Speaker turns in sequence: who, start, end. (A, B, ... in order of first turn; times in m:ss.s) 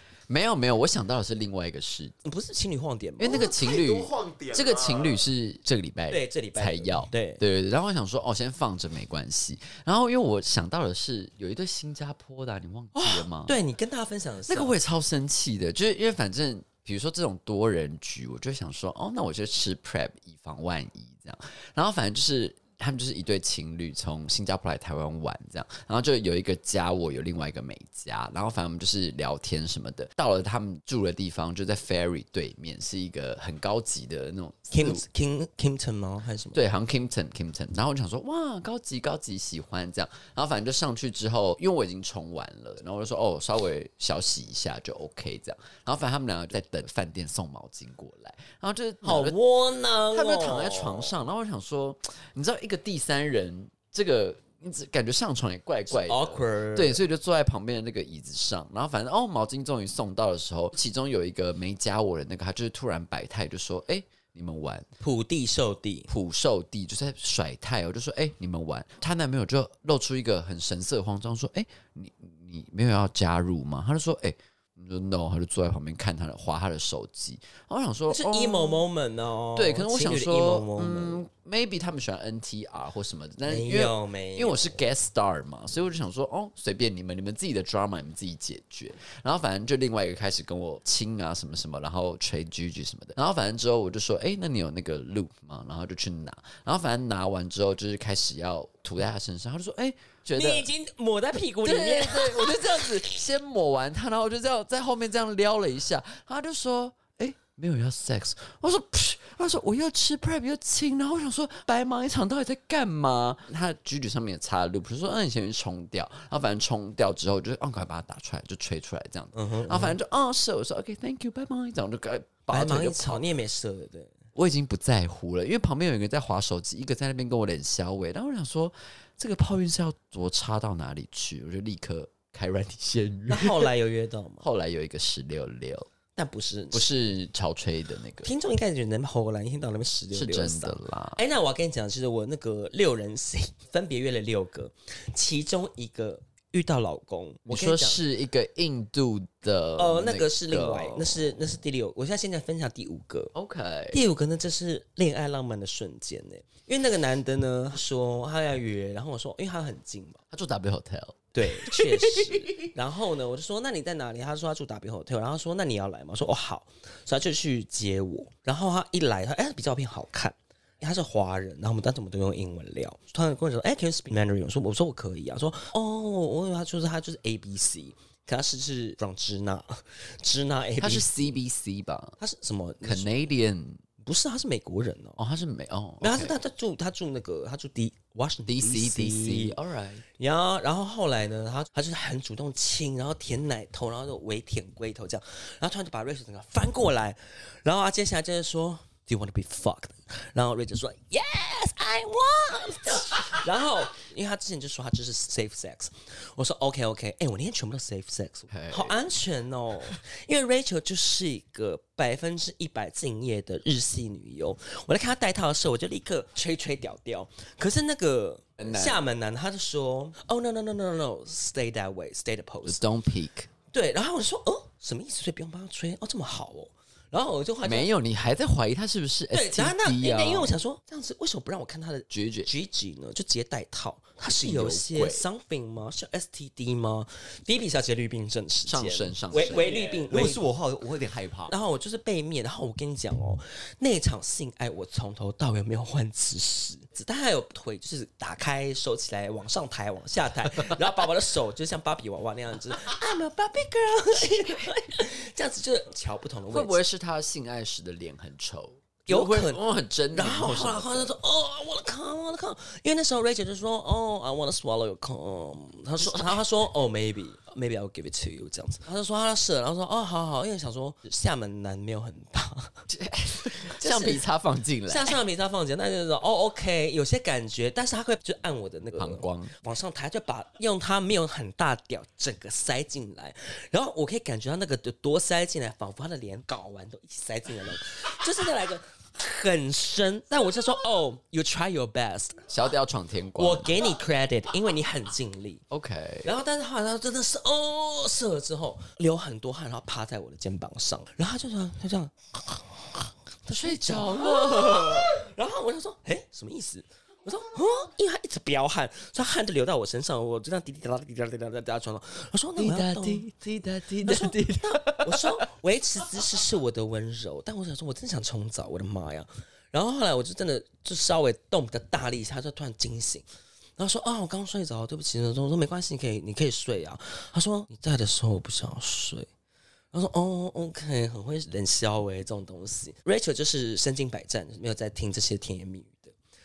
0:00.3-0:02.1 A
0:02.2-0:03.5 B
0:03.2-0:13.6 A
0:03.3-0:05.2 C
0:06.1-0:07.4 B
0:12.9-0:14.8 B
0:14.5-0:35.0 A
0:34.7-0:36.6 B
0:36.5-0:49.4 A
0:49.0-0:51.2 B
0:50.1-1:04.9 A
0:55.9-0:57.0 B
1:05.0-1:06.1 B
1:06.1-1:18.8 A
1:18.1-1:21.2 B
1:19.6-1:40.7 A
1:23.4-1:24.8 B
1:40.3-1:43.0 B
1:41.6-2:03.2 A
1:59.3-2:00.0 B
2:02.5-2:04.2 B
2:04.4-2:13.7 A
2:13.3-2:14.5 B
2:14.4-2:15.9 A
2:16.2-2:16.9 B
2:16.7-2:18.3 A
2:18.2-2:28.0 B
2:20.1-2:21.2 A
2:27.5-2:31.4 A
2:29.8-2:33.3 B
2:33.3-2:34.0 A
2:33.9-2:40.2 B
2:40.3-2:42.7 A
2:41.3-3:01.2 B
3:00.8-3:02.1 A
3:02.2-3:03.2 B
3:02.8-3:03.8 A
3:04.0-3:05.2 B
3:05.2-3:06.4 A
3:06.0-3:09.6 B
3:08.5-3:10.0 A
3:10.2-3:42.8 B
3:28.5-3:29.0 A
3:38.6-3:39.0 A
3:42.6-3:43.5 A
3:43.7-3:47.9 B
3:47.6-3:50.6 A
3:49.3-4:00.4 B
3:52.1-3:52.5 A
3:54.2-3:55.2 A
3:58.7-3:59.7 A
3:59.3-4:01.5 C
4:01.5-4:16.8 B
4:16.5-4:21.1 A
4:19.1-4:19.6 B
4:20.1-4:32.7 B
4:26.0-4:26.3 A
4:32.9-4:35.2 A
4:33.5-4:34.2 B
4:34.9-4:52.5 B
4:39.0-4:39.5 A
4:52.5-4:53.7 A
4:53.4-4:55.6 B
4:55.7-4:56.3 A
4:56.2-5:13.3 B
5:03.5-5:05.2 A
5:12.6-5:15.4 A
5:14.0-5:23.2 B
5:23.8-5:29.3 B
5:29.9-5:36.1 B